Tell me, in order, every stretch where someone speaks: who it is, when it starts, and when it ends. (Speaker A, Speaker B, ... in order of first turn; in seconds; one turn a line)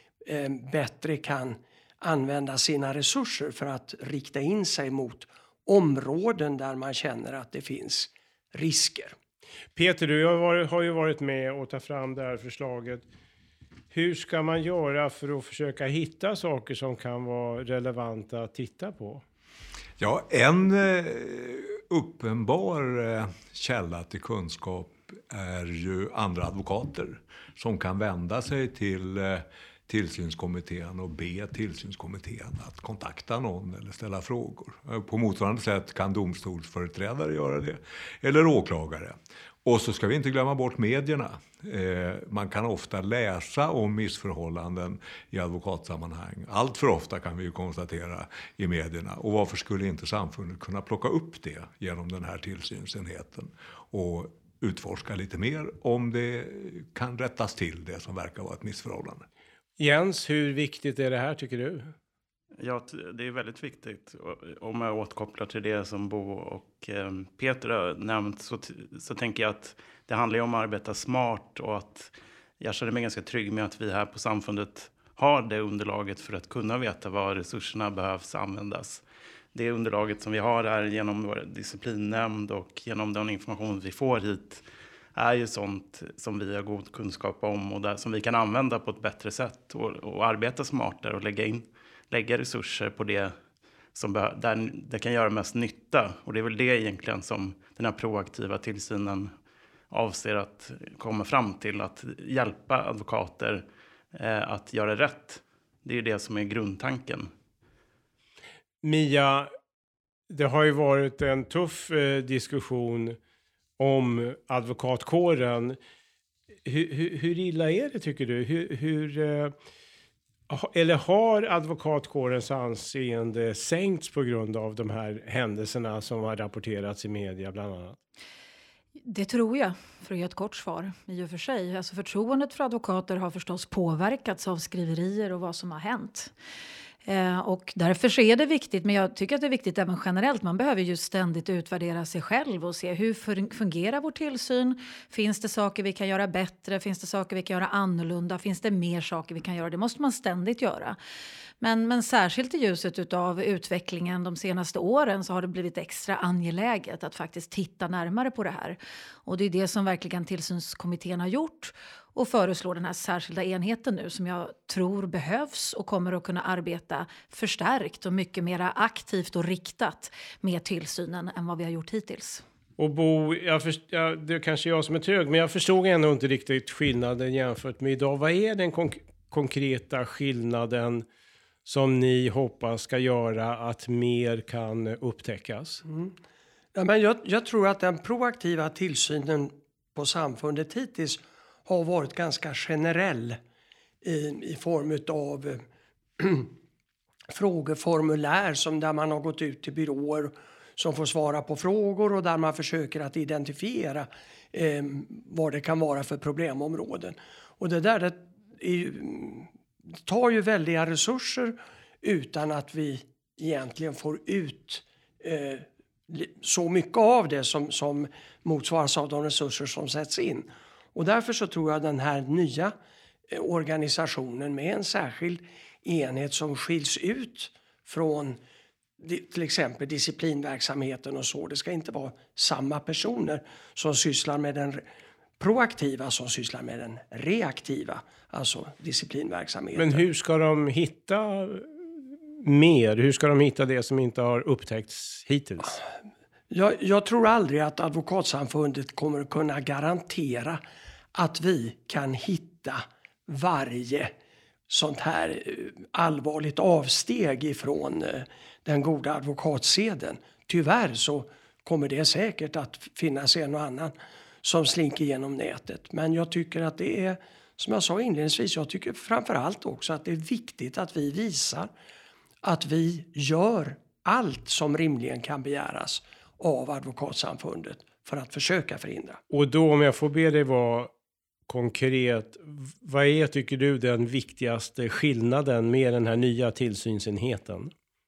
Speaker A: 0.2-9.2
Speaker B: 9.8-13.1
Speaker B: 13.9-19.2
Speaker C: 20.0-59.3
Speaker B: 59.8-61.9
Speaker D: 62.6-79.0
Speaker D: 79.5-93.3
Speaker D: 93.9-99.3
Speaker D: 99.9-107.3
Speaker B: 108.8-109.5
Speaker B: 110.3-113.2
Speaker B: 113.8-115.8
Speaker B: 116.7-119.5
Speaker B: 120.5-128.0
Speaker E: 129.1-136.3
Speaker E: 137.1-151.0
Speaker E: 151.6-172.4
Speaker B: 172.8-181.1
Speaker B: 181.7-185.8
Speaker A: 185.8-186.1
Speaker A: 186.8-193.4
Speaker A: 194.0-195.6
Speaker A: 196.2-196.5
Speaker A: 197.3-209.5
Speaker A: 210.1-222.7
Speaker A: 223.3-228.4
Speaker A: 229.0-234.8
Speaker A: 235.4-240.0
Speaker B: 239.8-241.9
Speaker B: 242.4-245.8
Speaker A: 246.5-250.6
Speaker A: 251.1-254.1
Speaker A: 254.7-271.7
Speaker A: 272.4-279.2
Speaker B: 279.3-280.9
Speaker B: 281.5-287.7